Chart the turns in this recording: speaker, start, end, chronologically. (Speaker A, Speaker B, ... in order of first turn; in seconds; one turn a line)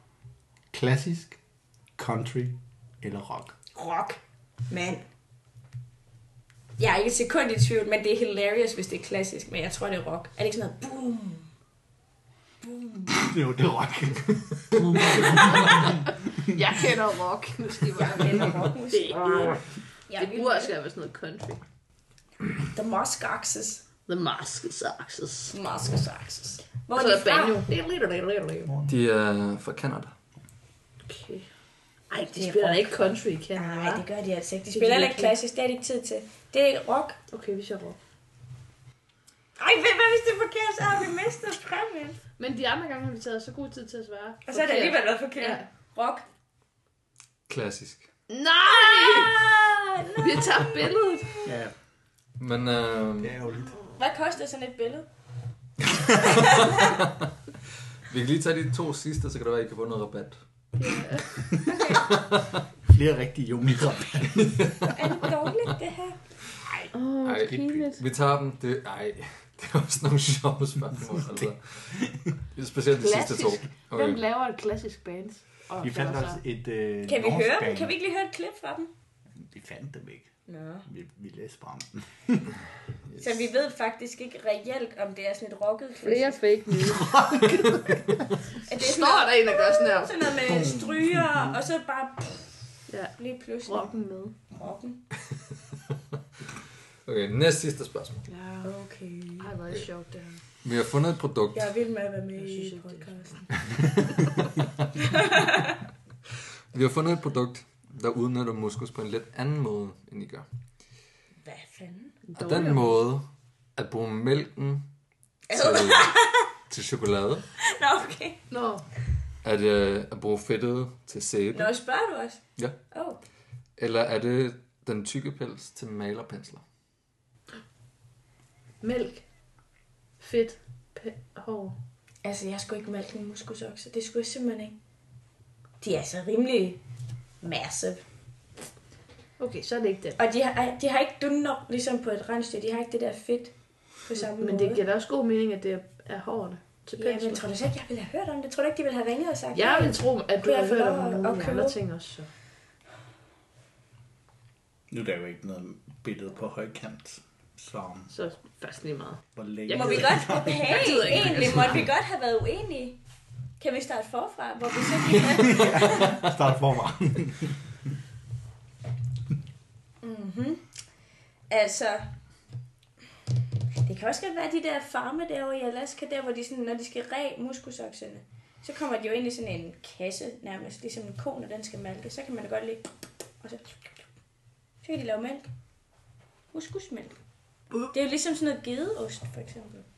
Speaker A: 0.7-1.4
Speaker A: 2.0-3.5
Speaker B: 3.7-4.2
Speaker B: 4.7-5.0
Speaker B: 6.8-11.5
Speaker A: 13.1-16.5
Speaker B: 15.1-15.6
Speaker C: 16.4-21.6
Speaker B: 17.9-20.7
Speaker B: 22.6-23.8
Speaker C: 24.1-25.5
Speaker B: 25.5-27.6
Speaker C: 26.9-28.7
Speaker D: 28.9-30.1
Speaker C: 31.1-31.5
Speaker C: 32.1-34.0
Speaker B: 32.3-33.0
Speaker B: 33.5-37.2
Speaker C: 34.7-35.3
Speaker C: 37.3-38.0
Speaker B: 39.6-42.2
Speaker C: 42.4-45.6
Speaker B: 44.5-46.2
Speaker D: 47.5-48.1
Speaker C: 48.3-49.5
Speaker B: 48.6-51.5
Speaker C: 50.2-51.5
Speaker A: 51.4-51.7
Speaker D: 52.4-53.3
Speaker A: 53.2-53.8
Speaker B: 54.0-55.0
Speaker B: 56.2-57.0
Speaker D: 58.1-60.4
Speaker C: 60.8-61.5
Speaker B: 61.6-62.0
Speaker D: 61.9-62.6
Speaker A: 62.9-64.7
Speaker D: 64.3-65.0
Speaker B: 64.8-66.2
Speaker A: 66.6-67.8
Speaker C: 66.9-68.0
Speaker D: 67.2-71.9
Speaker A: 71.3-72.3
Speaker D: 72.5-74.2
Speaker C: 73.0-76.4
Speaker A: 75.8-77.9
Speaker B: 77.0-78.9
Speaker A: 79.3-80.3
Speaker B: 80.5-80.8
Speaker A: 80.8-82.5
Speaker B: 83.2-86.4
Speaker C: 86.0-87.9
Speaker A: 86.7-88.2
Speaker B: 88.7-92.5
Speaker C: 88.7-90.1
Speaker A: 90.4-91.5
Speaker C: 92.9-94.3
Speaker B: 93.2-93.9
Speaker B: 94.5-95.0
Speaker D: 97.0-98.3
Speaker C: 98.3-98.7
Speaker B: 98.6-99.5
Speaker C: 99.4-100.4
Speaker D: 100.6-101.7
Speaker B: 101.5-103.7
Speaker C: 102.3-103.5
Speaker B: 105.0-105.8
Speaker D: 106.7-110.5
Speaker B: 111.4-112.2
Speaker C: 112.3-112.9
Speaker D: 112.3-114.9
Speaker B: 115.5-116.5
Speaker D: 115.5-116.1
Speaker D: 116.7-117.5
Speaker B: 117.6-118.4
Speaker C: 118.5-118.8
Speaker D: 119.4-121.7
Speaker B: 121.5-123.2
Speaker D: 123.8-126.6
Speaker C: 128.8-129.2
Speaker C: 130.2-131.7
Speaker B: 132.2-134.8
Speaker B: 135.8-136.8
Speaker B: 137.4-138.0
Speaker C: 139.4-140.2
Speaker B: 140.2-144.8
Speaker C: 144.2-147.4
Speaker B: 147.0-151.8
Speaker C: 149.5-152.3
Speaker A: 154.9-158.1
Speaker C: 158.1-161.9
Speaker A: 159.3-161.1
Speaker B: 159.7-163.0
Speaker B: 163.6-166.2
Speaker A: 165.4-167.6
Speaker B: 170.0-170.6
Speaker B: 171.5-172.1
Speaker B: 173.8-182.9
Speaker B: 183.4-183.9
Speaker B: 184.8-185.4
Speaker B: 186.5-187.2
Speaker B: 187.8-189.8